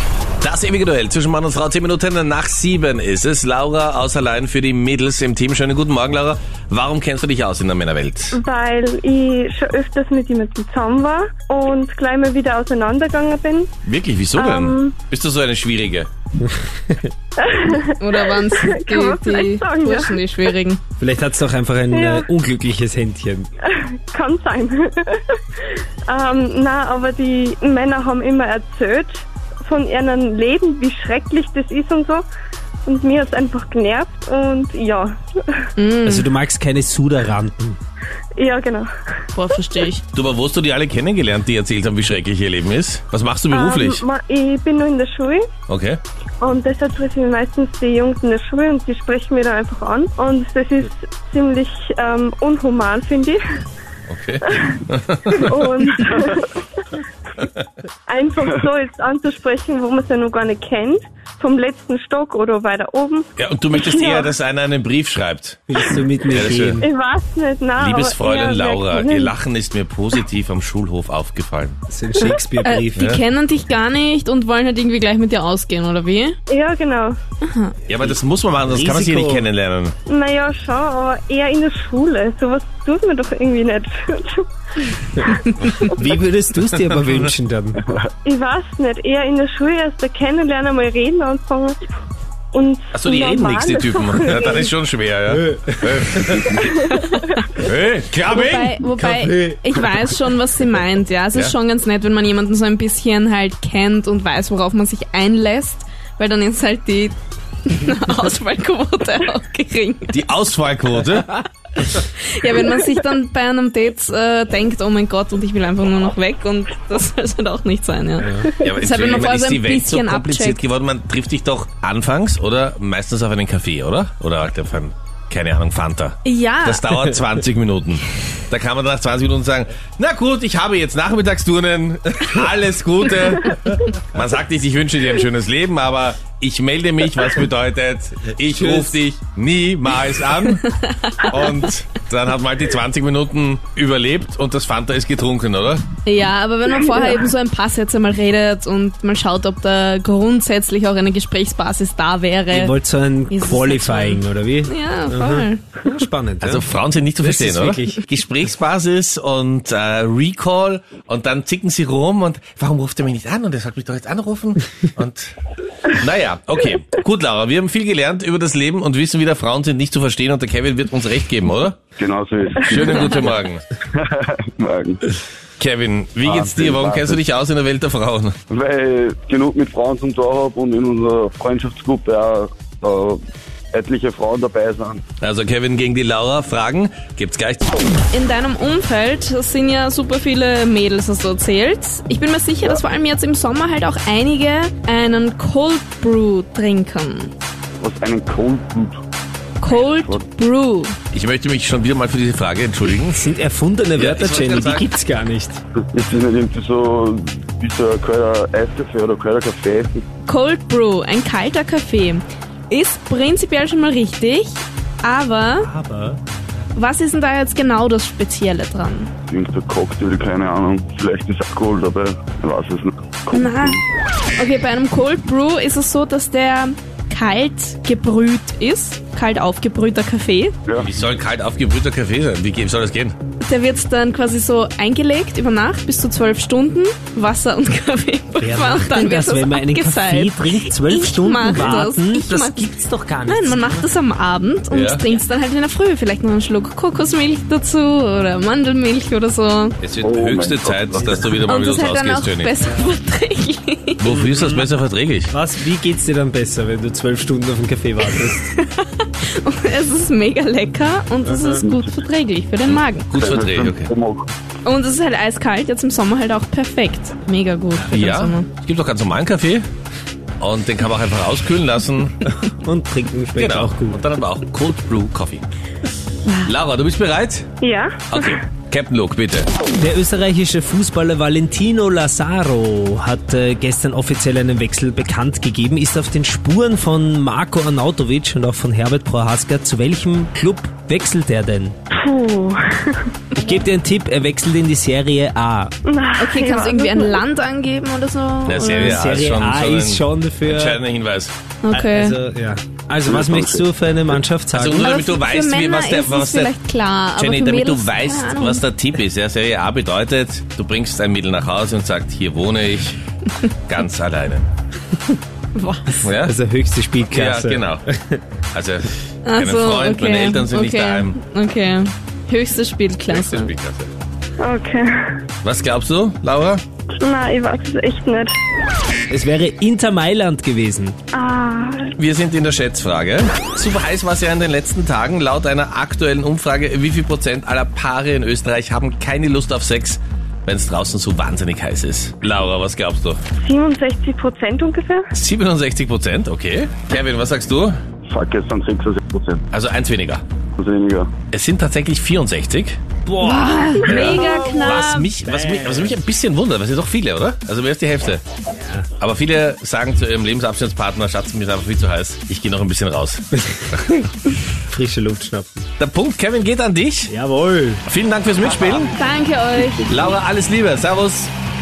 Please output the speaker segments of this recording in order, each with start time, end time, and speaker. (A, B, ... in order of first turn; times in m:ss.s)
0:00.4-0:08.4 A
0:08.3-0:13.7 B
0:13.8-0:16.1 A
0:14.3-0:15.0 B
0:16.4-0:17.0 C
0:17.4-0:20.2 B
0:18.0-0:20.8 D
0:21.0-0:23.5 C
0:21.9-0:22.3 B
0:23.6-0:32.2 B
0:32.8-0:35.7 B
0:35.8-0:36.3 D
0:36.0-0:37.8 C
0:38.4-0:38.9 B
0:39.3-0:40.0 D
0:40.1-0:44.0 A
0:43.5-0:45.5 B
0:45.7-0:46.0 A
0:46.4-0:53.4 B
0:54.1-0:55.5 A
0:54.5-0:57.0 B
0:58.1-1:04.3 B
1:03.4-1:06.8 A
1:05.7-1:06.8 C
1:06.6-1:09.3 B
1:07.8-1:11.8 A
1:11.9-1:13.1 C
1:12.2-1:16.4 D
1:13.0-1:13.2 A
1:16.5-1:17.2 B
1:17.4-1:17.7 D
1:17.9-1:19.9 A
1:18.6-1:19.5 C
1:20.1-1:25.3 B
1:25.8-1:27.8 C
1:28.2-1:31.8 B
1:32.5-1:34.7 B
1:32.9-1:36.6 A
1:35.4-1:36.3 C
1:36.6-1:37.3 B
1:36.8-1:37.6 D
1:37.6-1:39.2 A
1:38.3-1:50.2 D
1:39.0-1:39.6 C
1:50.1-1:51.3 A
1:51.1-2:00.6 D
1:58.2-1:58.5 C
1:58.6-2:25.8 A
2:06.2-2:07.0 D
2:18.6-2:19.0 C
2:20.6-2:21.5 D
2:26.0-2:32.7 D
2:32.5-2:36.7 C
2:33.3-2:35.8 D
2:36.4-2:51.8 A
2:37.2-2:38.0 C
2:52.0-2:53.2 E
2:52.6-2:53.6 A
2:53.9-2:55.0 E
2:55.6-2:58.4 A
2:56.2-2:57.2 E
2:58.5-3:05.0 E
3:05.2-3:07.8 A
3:08.1-3:17.3 D
3:17.8-3:19.0 E
3:19.6-3:21.0 D
3:19.6-3:20.2 E
3:21.1-3:23.2 A
3:23.1-3:25.6 C
3:24.0-3:24.9 A
3:25.9-3:30.0 E
3:30.2-3:35.7 D
3:35.6-3:36.2 C
3:36.7-3:39.1 D
3:39.3-3:43.8 E
3:43.3-3:43.8 D
3:44.4-3:50.5 D
3:50.8-3:53.1 A
3:53.4-4:02.7 D
3:58.4-4:03.9 C
4:03.2-4:09.8 D
4:04.7-4:05.0 A
4:09.8-4:12.5 A
4:10.0-4:11.4 E
4:11.4-4:14.0 D
4:14.0-4:15.3 A
4:14.2-4:14.6 C
4:15.3-4:18.5 C
4:18.4-4:23.1 D
4:21.4-4:21.9 E
4:22.7-4:23.9 A
4:23.1-4:24.3 E
4:24.6-4:28.5 D
4:27.9-4:29.6 A
4:30.4-4:32.3 A
4:32.4-4:34.0 C
4:33.3-4:35.4 A
4:36.4-4:37.6 A
4:37.6-4:38.4 B
4:38.1-4:39.5 A
4:39.8-4:51.7 C
4:51.9-4:53.2 B
4:53.4-4:55.7 C
4:55.8-4:57.2 B
4:56.2-4:59.0 D
4:58.4-5:01.3 A
4:58.7-5:00.8 C
5:01.6-5:02.2 D
5:01.7-5:04.9 C
5:03.0-5:03.6 E
5:04.5-5:06.6 A
5:04.8-5:08.6 D
5:07.1-5:13.0 A
5:13.7-5:14.5 A
5:15.5-5:16.0 D
5:16.0-5:16.3 A
5:16.2-5:18.2 C
5:17.1-5:17.8 A
5:18.5-5:21.2 A
5:19.2-5:23.5 D
5:23.1-5:23.9 A
5:24.4-5:25.2 B
5:25.4-5:26.6 A
5:27.0-5:28.3 B
5:29.1-5:31.0 C
5:31.1-5:31.9 B
5:32.0-5:43.2 A
5:43.4-5:45.1 B
5:45.1-5:47.7 A
5:48.1-5:49.4 E
5:49.5-5:50.2 A
5:50.6-5:51.1 E
5:51.3-5:52.8 A
5:53.0-5:56.0 C
5:53.2-5:55.1 D
5:53.9-5:58.2 A
5:53.9-5:54.6 B
5:58.5-5:58.9 C
5:59.0-6:03.8 A
6:03.4-6:04.1 C
6:04.6-6:05.6 C
6:05.8-6:07.1 A
6:07.1-6:07.8 C
6:07.8-6:08.9 A
6:08.9-6:10.1 D
6:09.9-6:11.3 A